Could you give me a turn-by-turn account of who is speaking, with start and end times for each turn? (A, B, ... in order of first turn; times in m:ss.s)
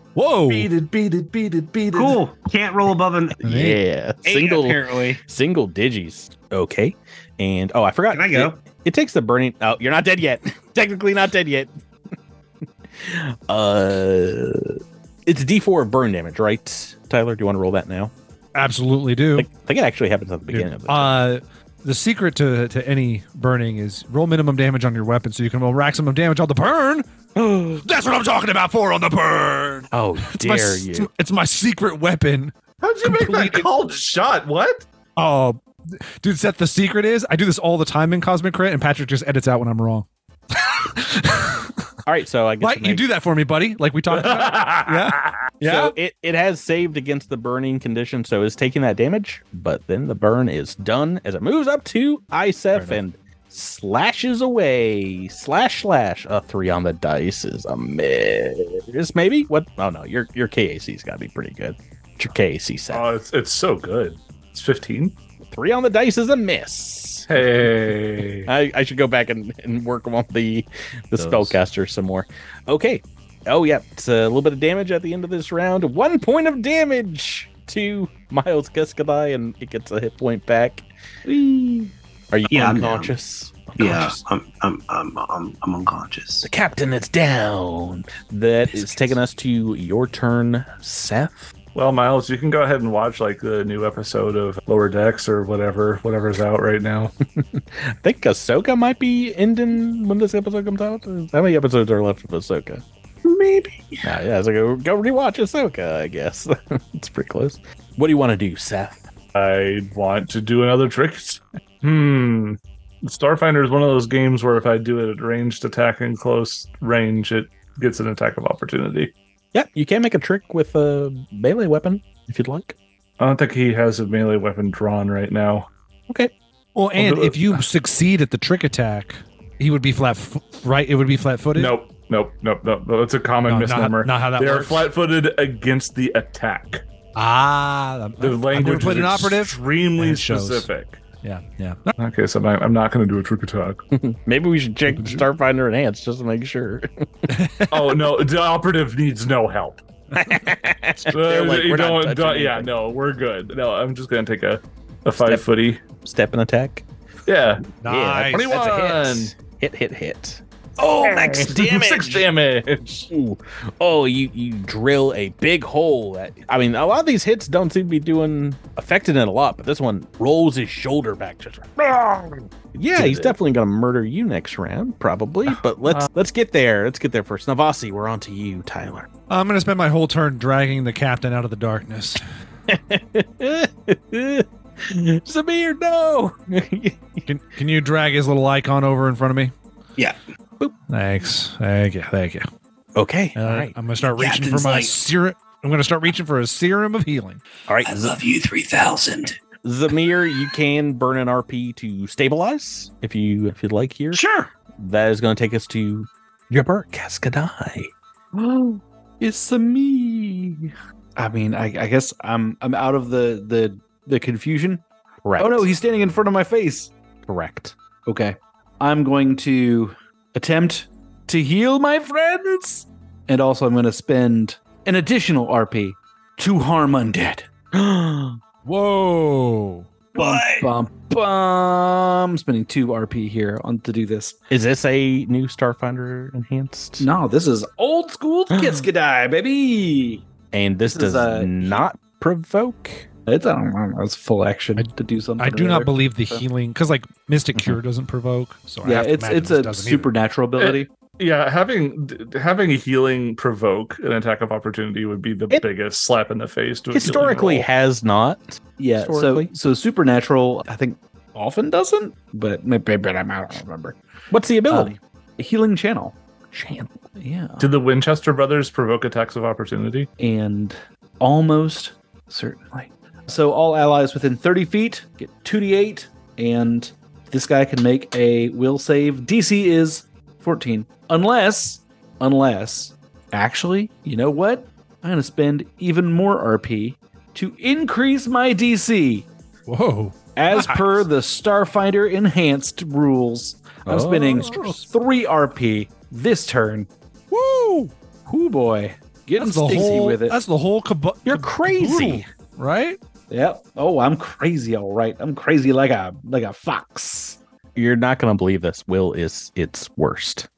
0:00.2-0:00.7 A
0:00.5-0:02.2 B
0:01.9-0:03.4 C
0:03.4-0:11.7 D
0:03.4-0:03.8 A
0:04.2-0:05.2 C
0:08.1-0:08.6 C
0:13.0-0:18.1 D
0:18.6-0:19.5 A
0:19.4-0:21.2 D
0:20.5-0:27.1 A
0:27.4-0:27.8 D
0:27.8-0:33.7 A
0:29.9-0:31.1 D
0:32.8-0:34.9 B
0:35.2-0:41.7 A
0:42.0-0:43.1 D
0:42.6-0:45.9 A
0:44.1-0:45.4 B
0:45.6-1:03.1 D
0:52.7-0:53.0 A
1:02.9-1:05.1 B
1:05.5-1:07.4 D
1:07.3-1:08.5 B
1:08.5-1:20.8 D
1:21.2-1:21.9 E
1:22.3-1:24.2 D
1:22.5-1:23.2 C
1:23.8-1:26.5 C
1:26.4-1:31.5 D
1:31.8-1:37.1 B
1:37.4-1:42.8 D
1:44.0-1:49.1 D
1:49.3-1:59.1 B
1:59.5-2:02.8 D
2:03.2-2:05.7 B
2:06.8-2:11.8 A
2:07.0-2:07.6 B
2:11.6-2:16.8 B
2:13.4-2:14.9 A
2:17.2-2:20.7 A
2:18.2-2:21.0 B
2:21.2-2:21.9 A
2:22.0-2:23.8 B
2:23.9-2:27.3 D
2:24.9-2:25.2 A
2:27.3-2:28.0 A
2:27.7-2:29.8 B
2:30.2-2:32.7 D
2:31.1-2:35.8 B
2:36.0-2:36.8 D
2:37.3-2:37.7 B
2:37.8-2:38.5 A
2:37.9-2:42.3 D
2:38.3-2:39.3 B
2:40.8-2:43.1 B
2:43.1-2:59.1 D
2:53.0-2:53.3 A
2:59.3-3:02.2 A
3:02.7-3:07.3 D
3:07.3-3:09.5 A
3:10.9-3:12.5 A
3:13.0-3:13.7 D
3:13.4-3:17.4 A
3:14.2-3:15.0 C
3:17.8-3:19.4 C
3:19.6-3:24.2 D
3:24.1-3:24.5 C
3:24.8-3:27.9 D
3:28.3-3:34.8 E
3:35.2-3:35.7 D
3:35.4-3:36.9 E
3:37.3-3:37.7 D
3:38.1-3:47.5 E
3:47.7-3:48.4 D
3:48.6-3:49.9 A
3:50.2-3:54.4 E
3:50.2-3:50.7 C
3:54.5-3:57.1 D
3:57.0-4:00.2 E
3:58.5-3:58.9 D
4:00.5-4:03.1 D
4:00.8-4:01.9 E
4:03.3-4:06.4 E
4:04.8-4:10.1 A
4:08.8-4:10.9 E
4:10.6-4:17.6 B
4:16.9-4:19.5 D
4:17.3-4:17.6 E
4:18.8-4:24.0 E
4:24.3-4:25.0 D
4:24.7-4:26.2 E
4:26.5-4:27.0 D
4:27.2-4:27.8 E
4:27.6-4:30.1 B
4:30.2-4:49.3 E
4:49.7-4:50.7 A
4:50.4-4:56.9 E
4:53.9-4:54.6 D
4:54.4-4:54.8 A
4:57.3-4:57.9 A
4:58.3-5:00.4 E
4:59.4-5:03.0 A
5:01.2-5:02.2 D
5:03.3-5:07.4 E
5:07.8-5:10.5 D